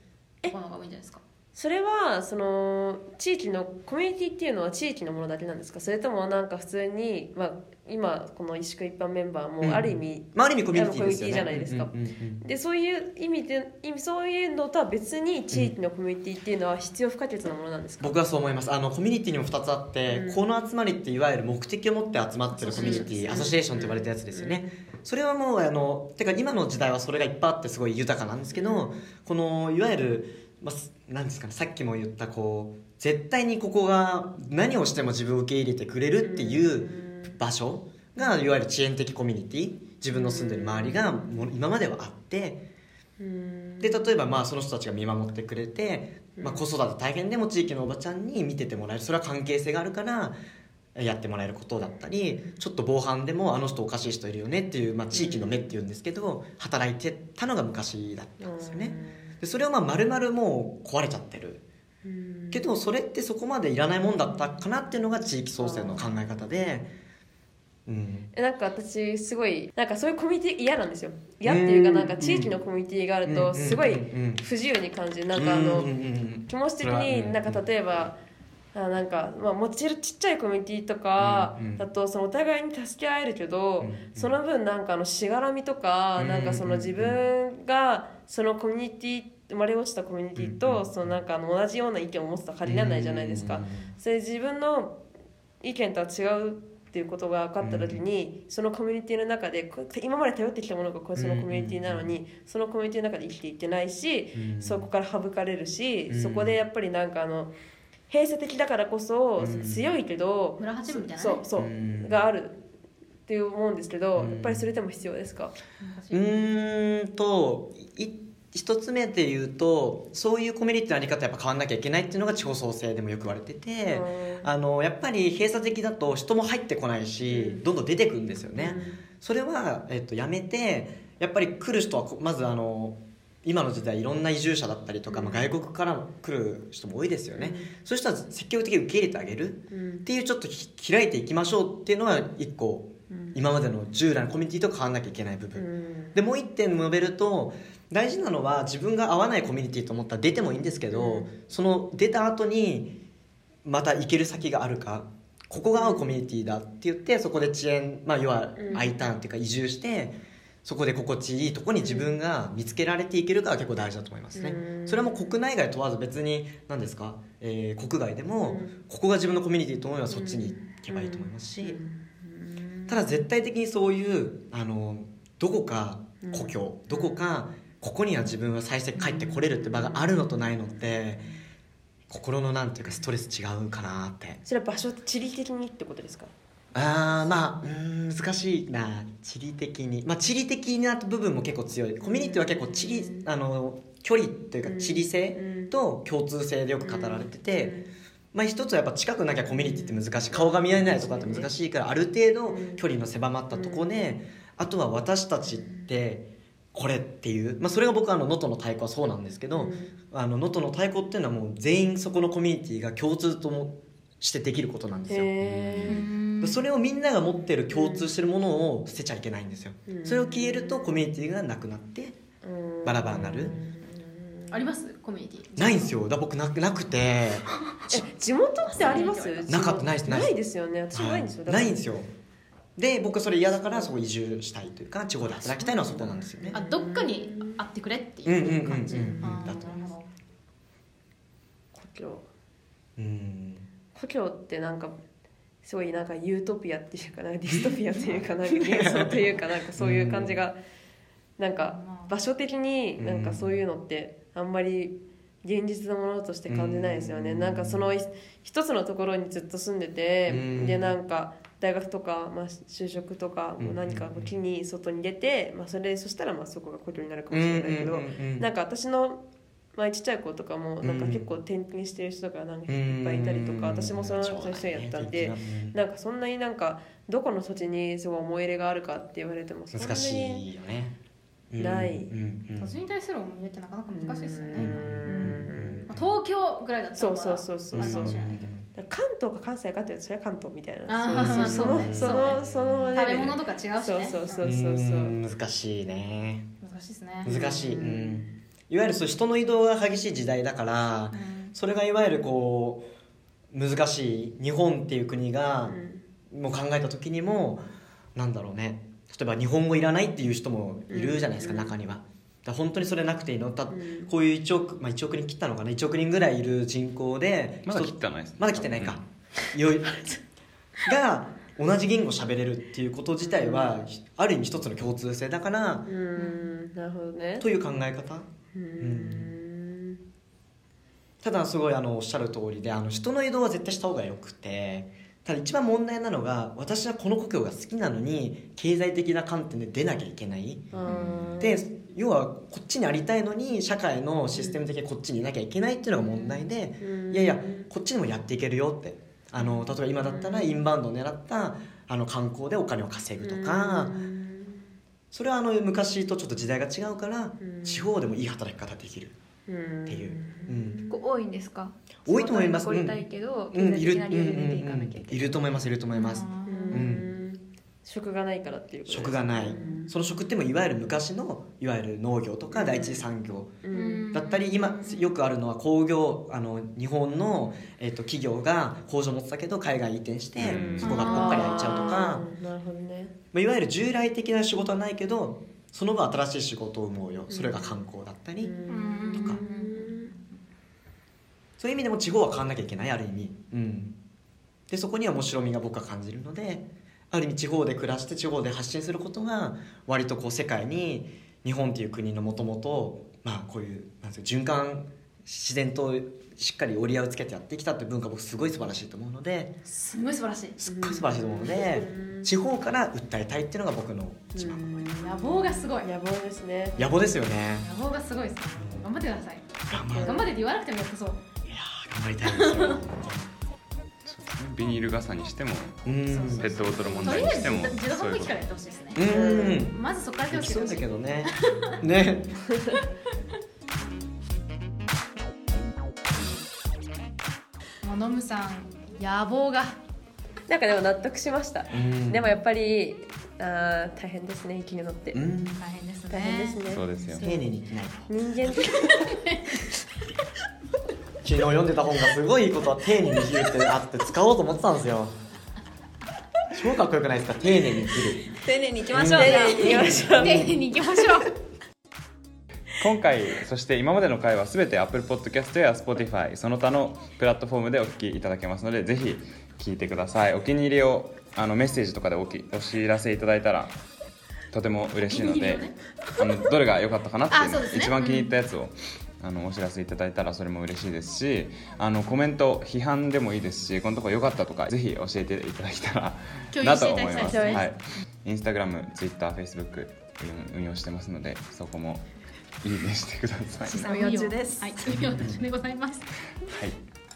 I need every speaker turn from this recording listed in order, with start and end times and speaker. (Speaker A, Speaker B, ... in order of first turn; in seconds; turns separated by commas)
Speaker A: 0.5-1.2, Speaker B: 1.6-18.2, Speaker C: 9.6-12.4, Speaker C: 18.0-42.6, Speaker B: 20.1-20.4, Speaker A: 22.6-23.5, Speaker B: 22.6-24.7, Speaker B: 28.6-29.0, Speaker B: 36.2-37.4, Speaker B: 40.1-41.5, Speaker B: 43.2-44.3, Speaker C: 43.8-50.4, Speaker B: 46.4-46.7, Speaker C: 51.0-61.6, Speaker B: 55.1-55.6, Speaker B: 58.4-59.3, Speaker B: 62.0-62.7, Speaker C: 62.5-66.9, Speaker B: 65.6-66.1, Speaker C: 67.9-68.3, Speaker B: 68.3-75.9, Speaker C: 71.4-72.5, Speaker C: 73.2-74.4, Speaker C: 75.3-77.6, Speaker B: 76.5-78.2, Speaker B: 78.7-95.0, Speaker C: 81.2-81.8, Speaker C: 83.8-84.3, Speaker C: 86.2-87.2, Speaker C: 90.4-91.1, Speaker C: 92.7-93.9, Speaker B: 95.6-107.5, Speaker C: 97.6-98.0, Speaker C: 101.2-102.1, Speaker C: 104.3-104.9, Speaker C: 106.1-106.6, Speaker B: 108.1-112.6, Speaker C: 109.4-109.9, Speaker A: 110.6-111.5, Speaker C: 111.6-112.2, Speaker B: 113.3-115.6, Speaker C: 114.2-114.7, Speaker A: 115.8-116.3, Speaker C: 116.1-152.9, Speaker B: 123.9-124.5, Speaker B: 127.3-127.6, Speaker B: 128.6-129.0, Speaker B: 135.1-135.4, Speaker B: 137.3-137.7, Speaker B: 139.7-140.1, Speaker B: 143.1-143.4, Speaker B: 145.6-146.2, Speaker B: 150.9-151.3, Speaker C: 153.7-171.8, Speaker B: 155.8-156.1, Speaker B: 158.6-158.9, Speaker B: 161.8-162.1, Speaker B: 164.3-165.3, Speaker B: 168.4-168.8, Speaker B: 170.1-173.1, Speaker C: 172.9-181.2, Speaker B: 176.2-177.2, Speaker A: 179.0-179.2, Speaker B: 179.0-181.3, Speaker C: 182.1-184.4, Speaker B: 184.5-186.3, Speaker C: 186.7-197.7, Speaker B: 192.0-193.3, Speaker B: 194.6-195.7, Speaker B: 196.8-197.9, Speaker C: 198.3-222.2, Speaker B: 199.5-201.5, Speaker B: 202.5-202.8, Speaker B: 203.5-203.9, Speaker B: 209.5-209.9, Speaker B: 215.1-216.1, Speaker A: 215.9-216.7, Speaker B: 217.7-218.1, Speaker B: 219.9-221.0, Speaker B: 222.4-224.7, Speaker C: 222.8-223.6, Speaker A: 224.5-226.0, Speaker C: 225.6-228.1, Speaker B: 227.9-231.8, Speaker A: 228.7-229.7, Speaker C: 229.0-230.4, Speaker C: 230.9-232.1, Speaker C: 232.8-236.6, Speaker B: 235.6-237.6, Speaker A: 236.5-240.1, Speaker C: 238.2-239.8, Speaker B: 238.9-239.9, Speaker B: 241.7-242.2, Speaker C: 243.0-243.7, Speaker B: 243.9-244.9, Speaker B: 245.6-250.6, Speaker C: 247.5-250.4, Speaker B: 251.4-269.2, Speaker A: 251.6-252.1, Speaker C: 253.0-253.6, Speaker C: 256.5-257.9, Speaker C: 260.3-260.9, Speaker C: 263.6-264.3, Speaker C: 267.3-268.5, Speaker B: 269.8-280.4, Speaker C: 270.8-271.3, Speaker C: 272.7-275.8, Speaker C: 279.7-280.9, Speaker C: 281.5-282.8, Speaker B: 281.6-282.1, Speaker A: 282.6-288.5, Speaker B: 283.9-285.9, Speaker C: 284.6-286.1, Speaker B: 287.0-295.1, Speaker C: 287.7-288.7, Speaker A: 290.9-294.5, Speaker C: 291.1-293.4, Speaker C: 294.4-296.5, Speaker A: 296.6-297.3, Speaker B: 297.2-298.4, Speaker C: 297.2-302.9, Speaker A: 301.1-301.6, Speaker C: 303.5-305.8, Speaker B: 305.7-306.0, Speaker C: 306.3-307.6, Speaker C: 308.1-320.1, Speaker B: 310.9-311.7, Speaker B: 313.7-314.1, Speaker D: 317.7-319.0, Speaker C: 320.8-325.9, Speaker B: 323.2-323.9, Speaker B: 325.9-327.4, Speaker A: 326.2-326.5, Speaker C: 327.4-328.3, Speaker B: 328.5-330.0, Speaker C: 328.8-329.3, Speaker C: 331.2-354.0, Speaker B: 340.7-341.7, Speaker A: 340.9-341.4, Speaker B: 344.3-344.6, Speaker B: 346.0-347.7, Speaker B: 349.4-350.6, Speaker B: 353.2-354.7, Speaker C: 355.1-359.2, Speaker B: 357.4-357.9, Speaker B: 359.5-360.9, Speaker C: 359.9-360.8, Speaker E: 360.9-365.3, Speaker C: 362.1-363.0, Speaker C: 363.5-367.1, Speaker A: 365.9-366.9, Speaker B: 366.4-369.9, Speaker C: 368.9-373.6, Speaker B: 372.5-373.1, Speaker B: 373.6-374.1, Speaker A: 373.7-375.1, Speaker C: 374.1-382.2, Speaker D: 380.4-381.1, Speaker B: 380.4-383.1, Speaker A: 380.8-382.0, Speaker C: 383.3-388.6, Speaker B: 387.3-387.7, Speaker B: 388.4-390.1, Speaker A: 388.7-390.4, Speaker C: 389.1-389.4, Speaker C: 391.6-394.0, Speaker C: 394.7-409.5, Speaker A: 409.7-410.6, Speaker C: 410.6-414.9, Speaker B: 410.7-412.3, Speaker B: 414.4-416.8, Speaker A: 415.0-415.9, Speaker C: 416.8-417.7, Speaker A: 417.6-419.4, Speaker C: 418.6-418.9, Speaker C: 419.7-420.3, Speaker B: 419.9-420.3, Speaker A: 420.0-421.2, Speaker C: 421.5-423.3, Speaker A: 422.4-422.8, Speaker D: 424.1-428.4, Speaker C: 425.9-426.5, Speaker A: 426.1-431.8, Speaker B: 426.7-427.4, Speaker C: 428.9-432.4, Speaker B: 429.1-429.6, Speaker A: 437.8-439.8, Speaker B: 440.5-445.2, Speaker C: 441.7-442.3, Speaker C: 445.1-445.6, Speaker A: 445.6-446.8, Speaker B: 446.1-447.5, Speaker D: 446.7-447.3, Speaker C: 447.2-448.7, Speaker B: 448.1-449.8, Speaker A: 448.9-449.6, Speaker C: 451.2-455.2, Speaker C: 456.5-458.3, Speaker E: 458.4-460.1, Speaker C: 458.9-460.6, Speaker B: 459.0-460.6, Speaker A: 459.2-461.3, Speaker D: 462.8-473.8, Speaker D: 474.5-492.0, Speaker A: 475.1-476.3, Speaker A: 477.3-478.3, Speaker A: 486.5-488.0, Speaker E: 487.2-487.6, Speaker D: 492.6-494.0, Speaker E: 493.6-494.9, Speaker A: 493.7-496.0, Speaker D: 496.4-496.8